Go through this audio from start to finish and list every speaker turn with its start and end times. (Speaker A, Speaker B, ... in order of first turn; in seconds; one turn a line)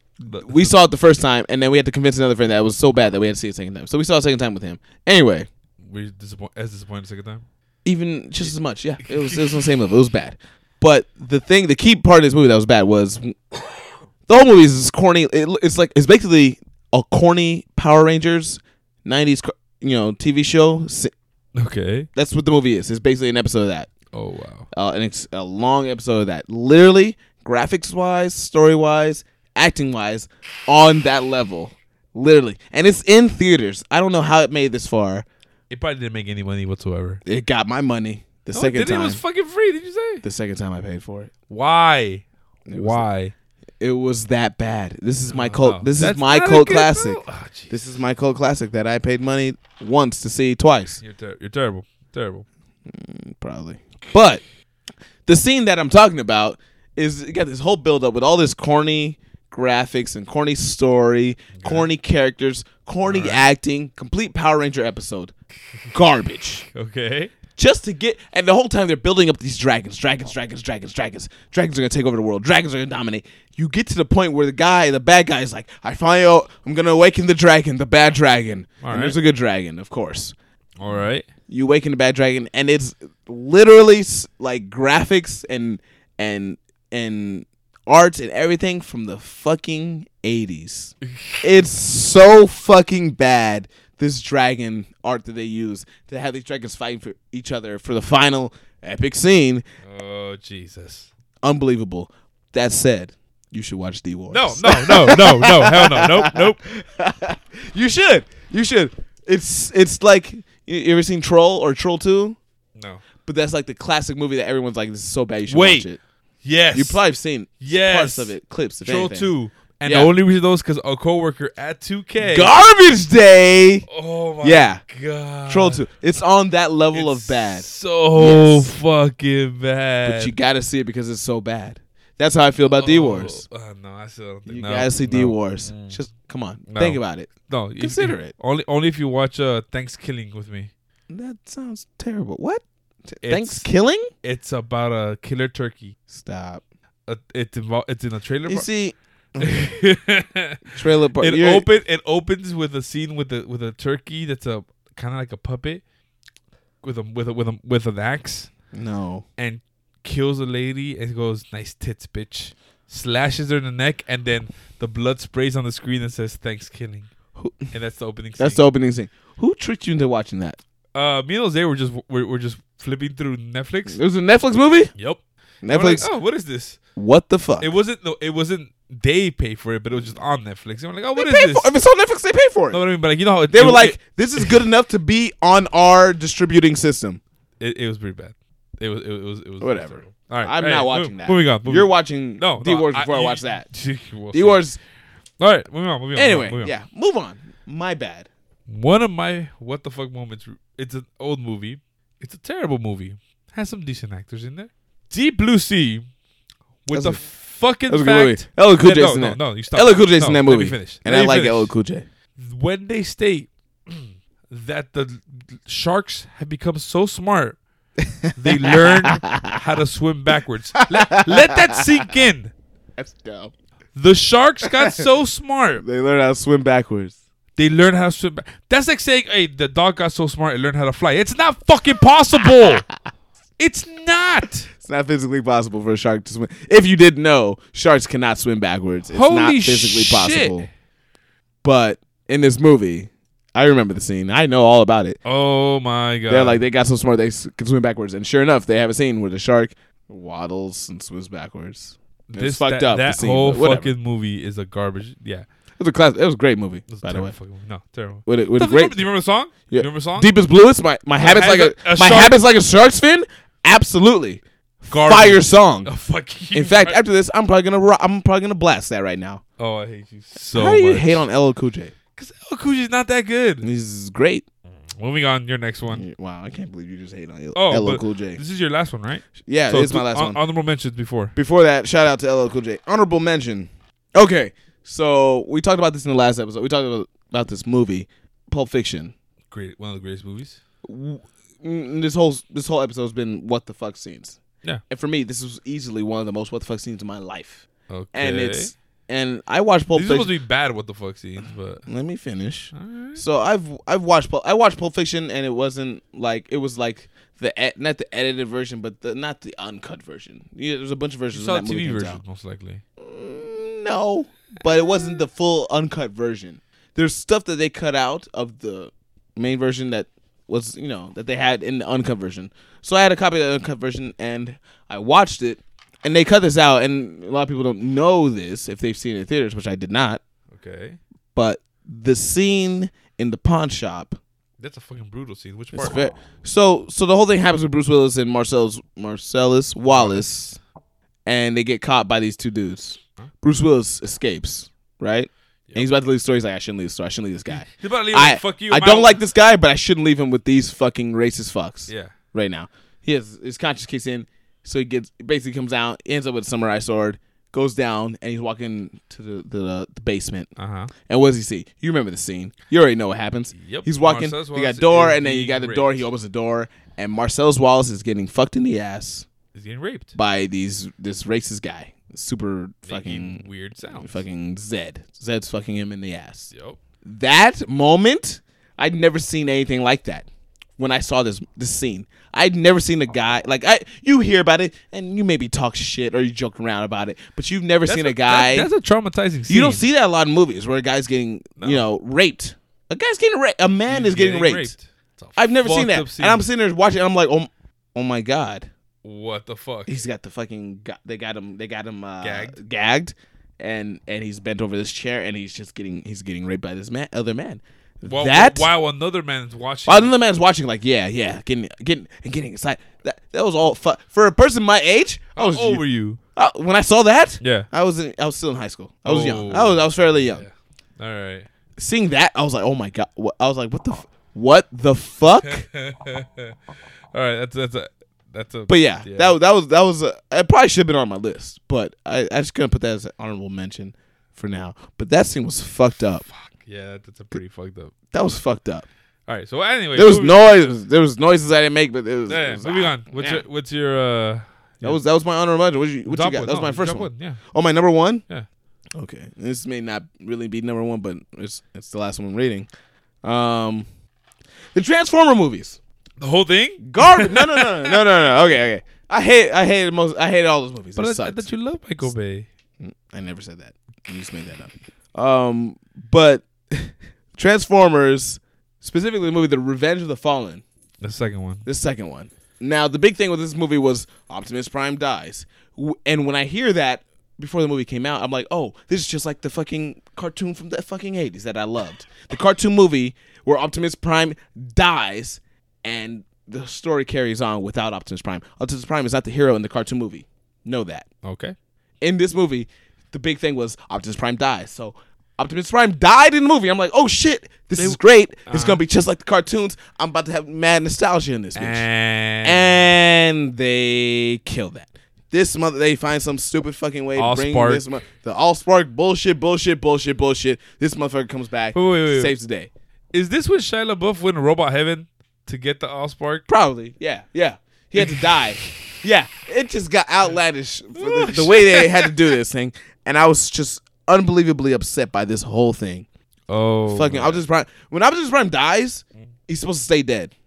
Speaker A: 0.2-0.7
Speaker B: 0.3-5.5
Speaker A: 5.8-7.5
Speaker B: 7.8-13.4
Speaker A: 9.0-9.6
Speaker B: 14.3-21.1
Speaker A: 21.6-22.1
Speaker B: 22.1-23.9
Speaker A: 24.1-24.7
Speaker B: 24.7-35.3
Speaker A: 35.7-37.2
Speaker B: 37.3-39.2
Speaker A: 38.5-40.2
Speaker B: 40.2-41.3
Speaker A: 41.5-43.3
Speaker B: 42.7-43.1
Speaker B: 43.8-51.0
Speaker A: 45.3-47.8
Speaker A: 51.0-52.5
Speaker B: 52.9-54.4
Speaker B: 55.3-65.3
Speaker A: 61.6-61.9
Speaker A: 63.0-63.5
Speaker B: 65.9-66.7
Speaker A: 66.7-67.3
Speaker B: 67.5-80.3
Speaker A: 78.8-79.2
Speaker A: 80.8-81.3
Speaker B: 81.5-99.6
Speaker A: 99.8-101.1
Speaker B: 101.4-112.4
Speaker A: 104.3-106.6
Speaker A: 112.8-113.0
Speaker B: 113.2-116.0
Speaker A: 115.5-115.9
Speaker A: 116.4-117.0
Speaker B: 116.7-119.3
Speaker A: 117.6-122.5
Speaker B: 119.9-120.1
Speaker B: 122.2-123.9
Speaker A: 123.9-125.8
Speaker B: 124.4-124.8
Speaker B: 125.5-128.7
Speaker A: 126.9-130.3
Speaker B: 130.1-133.4
Speaker A: 132.8-136.0
Speaker B: 134.5-138.3
Speaker A: 136.7-140.7
Speaker B: 141.1-144.1
Speaker A: 143.2-143.7
Speaker A: 144.2-146.0
Speaker B: 146.1-146.6
Speaker A: 147.1-148.7
Speaker B: 148.5-149.7
Speaker A: 149.4-150.6
Speaker B: 150.7-151.7
Speaker A: 151.2-155.8
Speaker A: 156.8-158.5
Speaker B: 158.7-159.2
Speaker A: 159.4-167.1
Speaker B: 167.4-167.7
Speaker A: 167.7-168.6
Speaker B: 168.4-170.6
Speaker A: 170.9-174.0
Speaker B: 173.9-174.9
Speaker A: 175.0-176.8
Speaker B: 175.6-176.1
Speaker B: 177.0-177.7
Speaker A: 177.6-181.7
Speaker B: 181.2-182.8
Speaker A: 182.7-184.6
Speaker B: 183.5-187.2
Speaker A: 187.6-194.6
Speaker B: 189.6-193.7
Speaker B: 194.3-194.8
Speaker A: 195.4-196.7
Speaker B: 196.2-198.3
Speaker A: 198.7-206.1
Speaker A: 206.8-211.7
Speaker B: 206.9-207.2
Speaker B: 207.9-212.1
Speaker A: 212.4-217.6
Speaker B: 218.0-219.6
Speaker A: 218.4-222.5
Speaker B: 220.8-221.9
Speaker B: 223.0-223.5
Speaker A: 223.9-225.8
Speaker B: 224.7-225.0
Speaker B: 225.8-227.2
Speaker A: 227.6-232.8
Speaker A: 233.6-234.7
Speaker B: 234.8-240.7
Speaker A: 239.1-240.7
Speaker B: 241.6-245.2
Speaker A: 245.2-246.6
Speaker B: 246.3-253.9
Speaker A: 252.3-255.5
Speaker B: 255.8-257.3
Speaker A: 256.9-260.3
Speaker B: 258.3-259.0
Speaker B: 259.7-265.9
Speaker A: 261.2-262.4
Speaker A: 264.9-267.0
Speaker B: 266.5-269.4
Speaker A: 269.6-271.2
Speaker B: 270.5-271.9
Speaker A: 272.2-273.7
Speaker B: 273.6-274.4
Speaker A: 274.9-276.1
Speaker B: 275.9-278.4
Speaker A: 277.6-281.3
Speaker B: 279.5-280.4
Speaker B: 281.4-289.1
Speaker A: 289.5-290.6
Speaker B: 290.8-300.3
Speaker A: 297.9-298.7
Speaker A: 299.9-301.9
Speaker B: 301.9-312.2
Speaker A: 302.7-303.2
Speaker A: 311.3-312.8
Speaker B: 313.0-330.2
Speaker A: 330.5-331.0
Speaker B: 331.3-334.2
Speaker A: 334.6-336.1
Speaker B: 335.7-340.6
Speaker A: 339.9-340.3
Speaker B: 341.3-360.5
Speaker A: 347.5-349.2
Speaker A: 351.9-352.1
Speaker A: 360.6-360.9
Speaker B: 361.1-369.3
Speaker A: 363.6-366.1
Speaker A: 369.5-370.1
Speaker B: 370.2-373.4
Speaker A: 372.9-374.2
Speaker B: 374.0-376.5
Speaker A: 376.5-376.8
Speaker B: 377.1-380.3
Speaker B: 380.8-388.7
Speaker A: 387.9-389.9
Speaker B: 389.5-394.7
Speaker A: 391.6-391.9
Speaker A: 393.9-396.5
Speaker B: 395.4-398.7
Speaker A: 399.0-400.0
Speaker B: 399.9-408.7
Speaker A: 402.2-402.6
Speaker A: 408.1-410.1
Speaker B: 409.9-415.8
Speaker A: 415.4-416.2
Speaker B: 416.4-420.4
Speaker A: 417.4-417.7
Speaker A: 419.1-421.5
Speaker B: 421.8-425.7
Speaker A: 425.4-426.6
Speaker A: 427.1-429.4
Speaker B: 428.7-436.3
Speaker A: 436.3-437.9
Speaker B: 438.1-438.9
Speaker A: 439.3-440.4
Speaker B: 439.9-443.4
Speaker A: 442.3-445.0
Speaker B: 444.8-448.2
Speaker A: 446.1-447.4
Speaker B: 448.9-452.7
Speaker B: 453.2-453.9
Speaker B: 454.8-455.8
Speaker A: 456.2-458.0
Speaker B: 456.8-461.5
Speaker A: 461.0-462.5
Speaker B: 462.8-470.6
Speaker A: 471.0-471.6
Speaker B: 471.6-491.1
Speaker A: 491.2-491.6
Speaker B: 492.0-501.9
Speaker A: 497.8-498.8
Speaker A: 501.6-502.9
Speaker B: 502.4-512.7
Speaker A: 507.2-507.9
Speaker A: 511.7-512.3
Speaker A: 513.1-516.5
Speaker B: 516.5-526.1
Speaker A: 518.0-518.7
Speaker A: 521.0-522.2
Speaker A: 526.5-527.4
Speaker B: 526.9-530.3